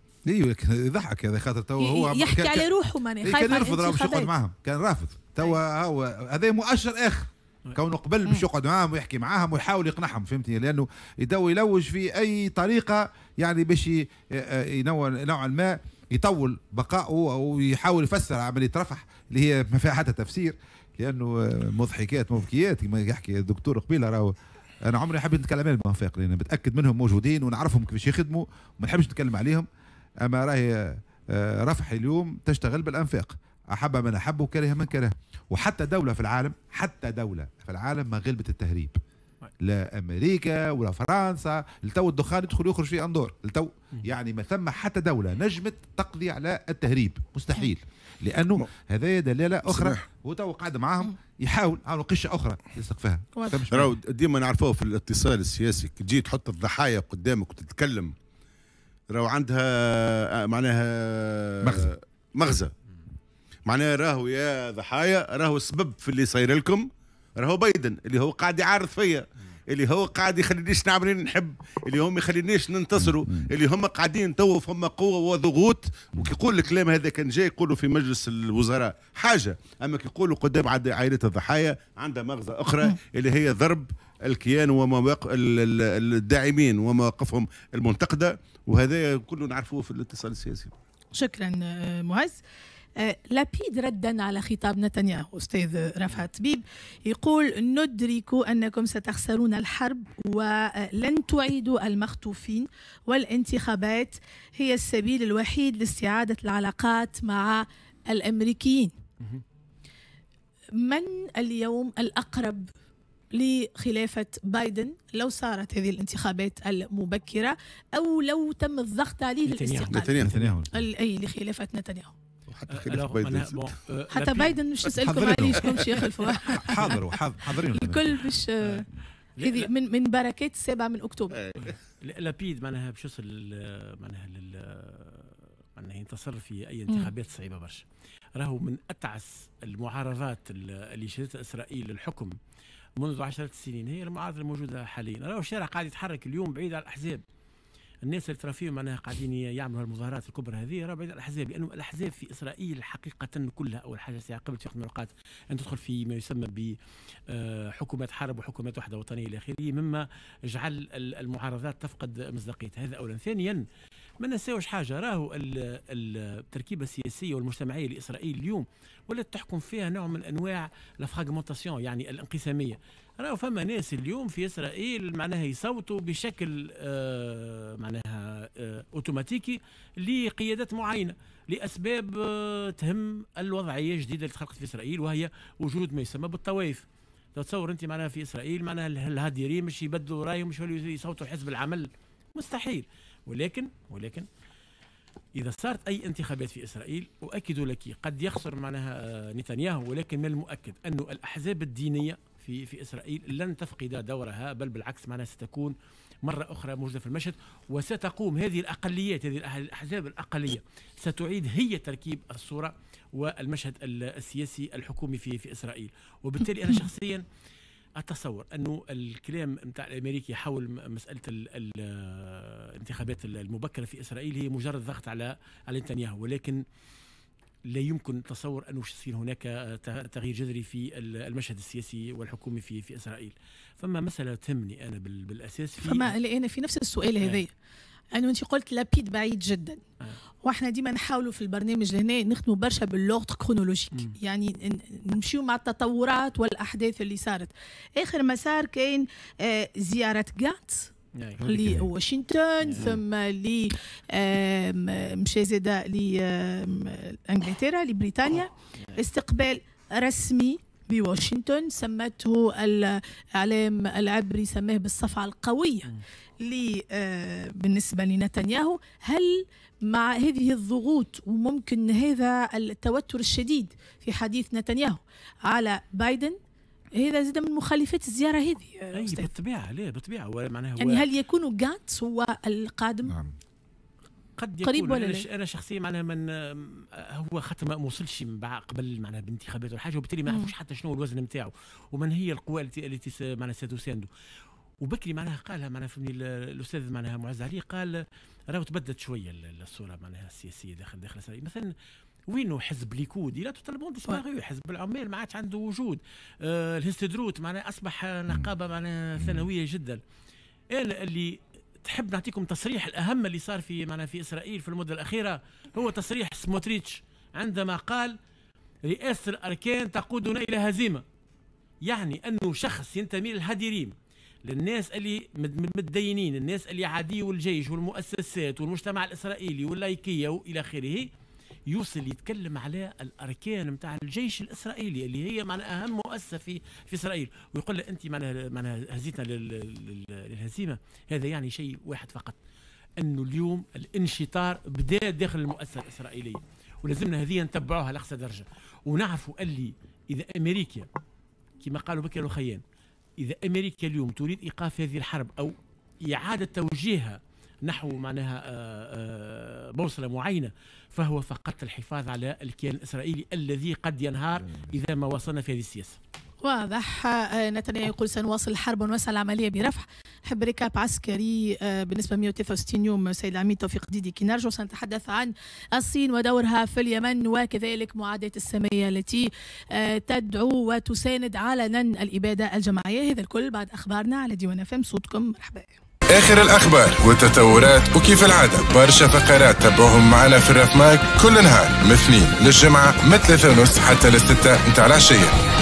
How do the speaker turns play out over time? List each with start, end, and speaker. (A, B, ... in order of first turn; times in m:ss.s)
0:00.2-0:02.7 A
0:01.8-0:04.3 B
0:03.2-0:24.3 A
0:24.8-0:29.7 A
0:30.2-0:39.0 A
0:39.6-0:54.0 A
0:53.4-0:53.6 B
0:53.7-0:58.1 C
0:59.1-1:02.7 C
1:01.6-1:01.9 A
1:03.7-1:30.7 C
1:13.0-1:13.4 A
1:31.1-1:32.4 B
1:33.0-1:48.9 B
1:50.8-1:52.7 B
1:53.3-2:02.1 B
1:59.5-2:00.5 D
1:59.9-2:00.3 C
2:00.2-2:00.7 A
2:02.5-2:03.7 C
2:02.7-2:04.6 D
2:04.1-2:07.0 B
2:05.0-2:08.2 A
2:07.7-2:08.8 B
2:09.4-2:09.7 D
2:09.4-2:11.4 B
2:11.4-2:11.6 C
2:11.6-2:17.8 D
2:18.4-2:22.4 D
2:23.0-2:27.2 D
2:28.0-2:36.8 D
2:37.3-2:43.6 D
2:44.2-3:14.3 D
3:15.4-3:37.2 D
3:38.0-3:46.6 D
3:47.6-3:56.1 D
3:55.8-3:57.5 B
3:58.1-3:59.8 B
4:00.4-4:10.9 B
4:11.2-4:11.4 D
4:11.4-4:11.8 A
4:11.4-4:25.9 B
4:12.6-4:12.9 D
4:26.4-4:36.4 B
4:37.0-4:39.3 B
4:38.9-4:41.0 D
4:40.8-4:43.1 B
4:43.0-4:43.3 A
4:44.4-4:54.1 D
4:44.6-4:45.3 B
4:54.8-5:01.7 D
5:02.3-5:10.0 D
5:09.2-5:09.5 A
5:10.7-5:18.2 D
5:18.8-5:21.0 D
5:21.8-5:31.1 D
5:31.7-5:42.4 D
5:43.0-5:50.9 D
5:51.6-5:52.6 D
5:53.2-5:55.5 D
5:56.0-6:06.0 D
6:06.4-6:25.8 B
6:26.1-6:35.3 E